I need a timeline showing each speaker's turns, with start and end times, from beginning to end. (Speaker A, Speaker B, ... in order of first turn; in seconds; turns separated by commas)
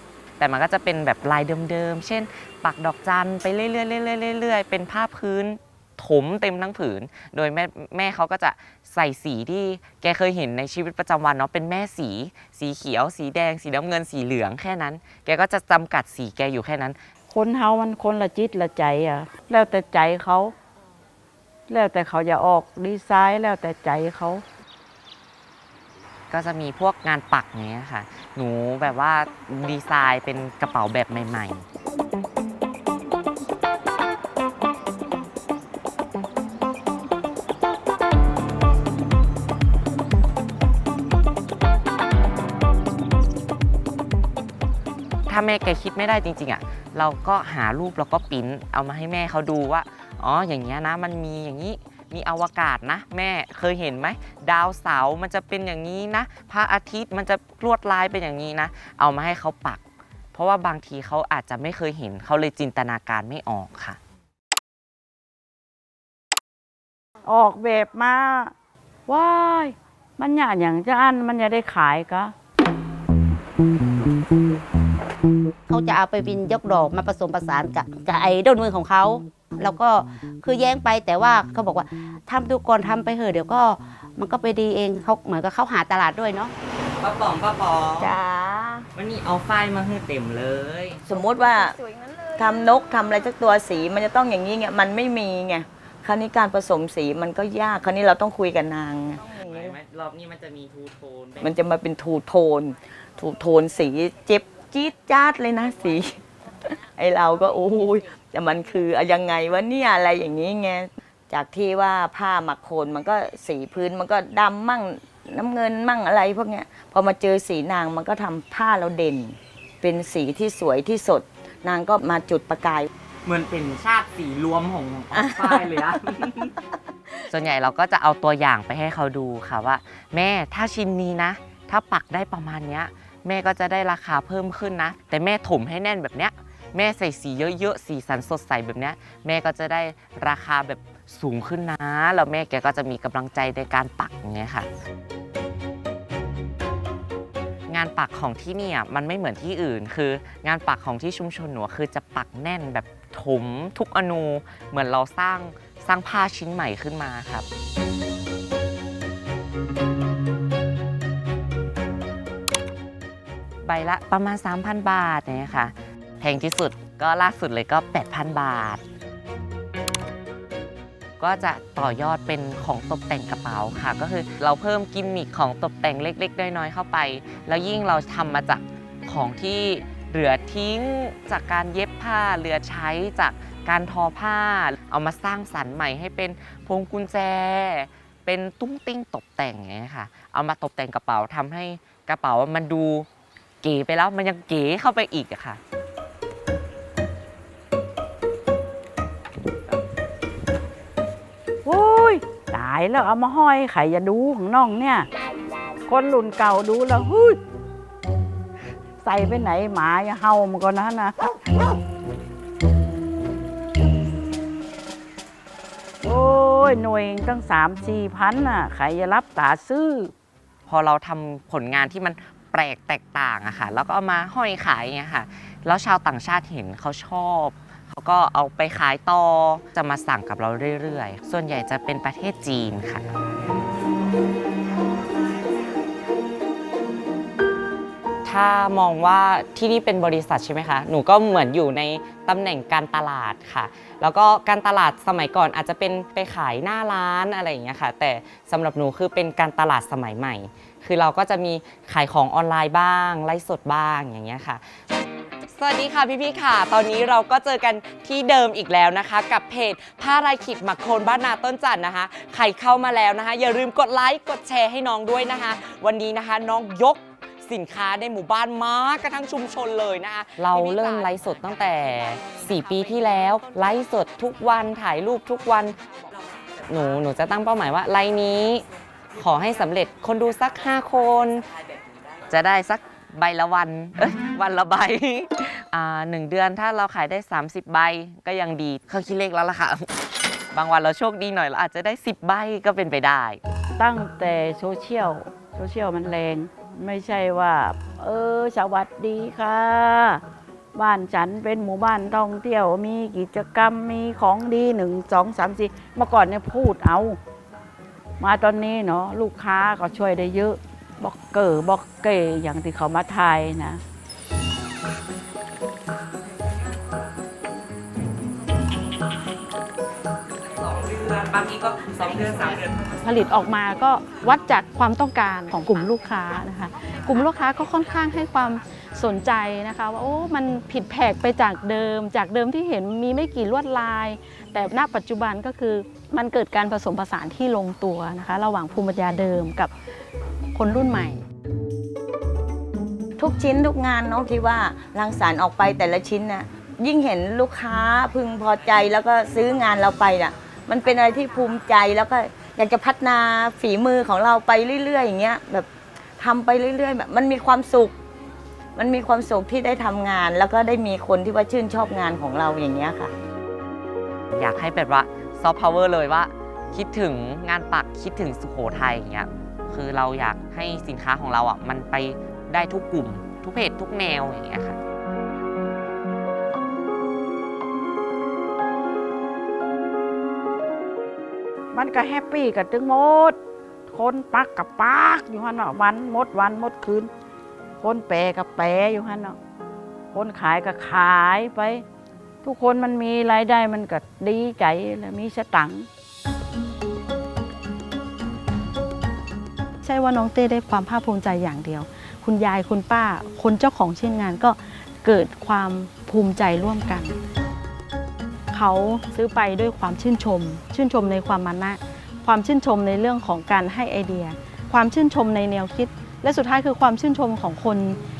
Speaker A: 0.4-17.0, Speaker B: 17.3-20.5, Speaker B: 21.7-24.4, Speaker A: 26.3-31.6, Speaker A: 45.3-59.8, Speaker A: 60.3-64.0, Speaker B: 67.2-68.5, Speaker B: 69.1-72.3, Speaker C: 75.7-86.5, Speaker A: 87.0-88.1, Speaker D: 88.0-88.8, Speaker A: 88.9-91.0, Speaker D: 91.1-91.8, Speaker D: 92.3-99.7, Speaker A: 99.2-101.6, Speaker D: 101.4-122.9, Speaker A: 123.2-126.5, Speaker D: 125.1-125.6, Speaker A: 127.3-144.7, Speaker A: 147.7-157.4, Speaker A: 163.6-168.8, Speaker A: 171.2-193.1, Speaker A: 193.6-195.6, Speaker B: 201.6-205.1, Speaker B: 205.9-207.4, Speaker B: 209.0-211.7, Speaker B: 216.0-220.1, Speaker A: 220.7-233.0, Speaker A: 238.2-254.6, Speaker A: 255.5-275.8, Speaker A: 276.7-281.4, Speaker A: 282.3-289.9, Speaker A: 290.5-293.4, Speaker B: 293.8-300.2, Speaker B: 300.7-307.2, Speaker B: 308.2-313.8, Speaker A: 320.5-322.8, Speaker E: 323.0-339.7, Speaker E: 340.5-341.2, Speaker D: 343.2-355.7, Speaker D: 356.2-358.0, Speaker D: 358.7-363.1, Speaker A: 364.3-374.8, Speaker B: 381.7-383.4, Speaker B: 383.9-387.1, Speaker B: 387.8-389.4, Speaker B: 390.1-391.8, Speaker B: 392.4-395.9, Speaker E: 399.8-407.1, Speaker E: 408.5-418.0